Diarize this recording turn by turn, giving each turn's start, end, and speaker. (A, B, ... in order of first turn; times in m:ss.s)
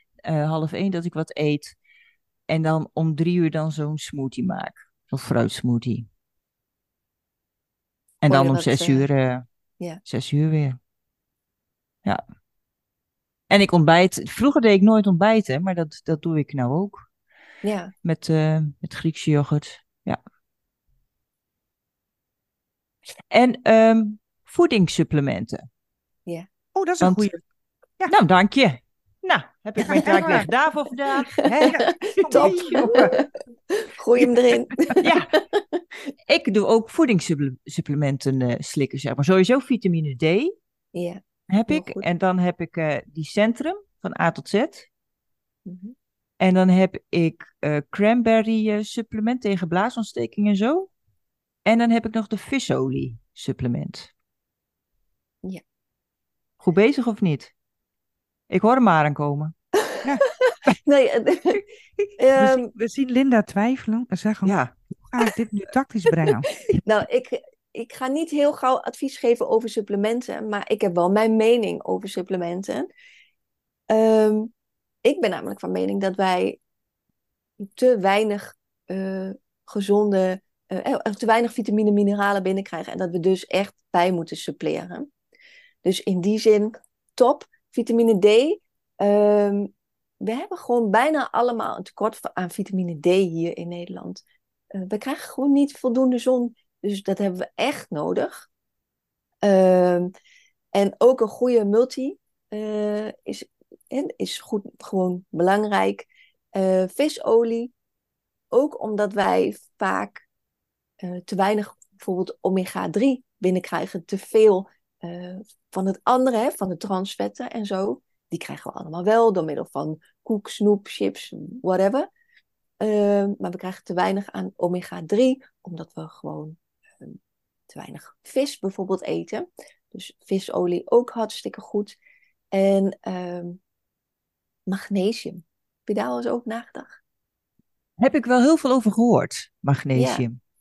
0:00.2-0:01.8 A
0:02.5-0:06.1 A
0:08.2-0:09.4 A
0:08.3-0:09.1 B
0:10.0-0:10.8 A
0:13.5-0:17.1 A
0:17.6-0:17.9 B
0:18.0-0:20.2 A
0:23.3-0:25.6 A
0:26.8-0:27.4 C
0:27.0-0:27.3 A
0:28.1-0:31.4 A
0:29.8-0:30.5 C
0:29.8-0:30.3 B
0:31.3-0:35.8 B
0:31.4-0:33.2 C
0:32.3-0:33.1 A
0:35.0-0:35.3 A
0:36.3-0:40.5 A
0:40.9-0:42.0 B
0:41.5-0:44.9 A
0:45.7-0:46.0 B
0:46.4-0:50.9 A
0:51.6-0:54.1 A
0:56.6-0:57.5 A
0:58.5-0:59.5 A
0:59.9-1:01.6 B
1:02.2-1:02.7 B
1:02.4-1:06.5 C
1:04.4-1:04.7 A
1:06.7-1:12.9 B
1:13.9-1:14.5 B
1:15.0-1:16.6 B
1:17.6-1:25.1 B
1:25.8-1:34.2 B
1:34.7-1:38.5 B
1:39.4-1:40.1 B
1:40.7-1:47.7 B
1:48.5-1:50.2 B
1:51.0-2:02.1 B
2:02.8-2:07.2 B
2:07.7-2:12.0 B
2:12.5-2:13.6 B
2:14.7-2:17.0 B
2:18.0-2:20.4 A
2:20.0-2:20.2 B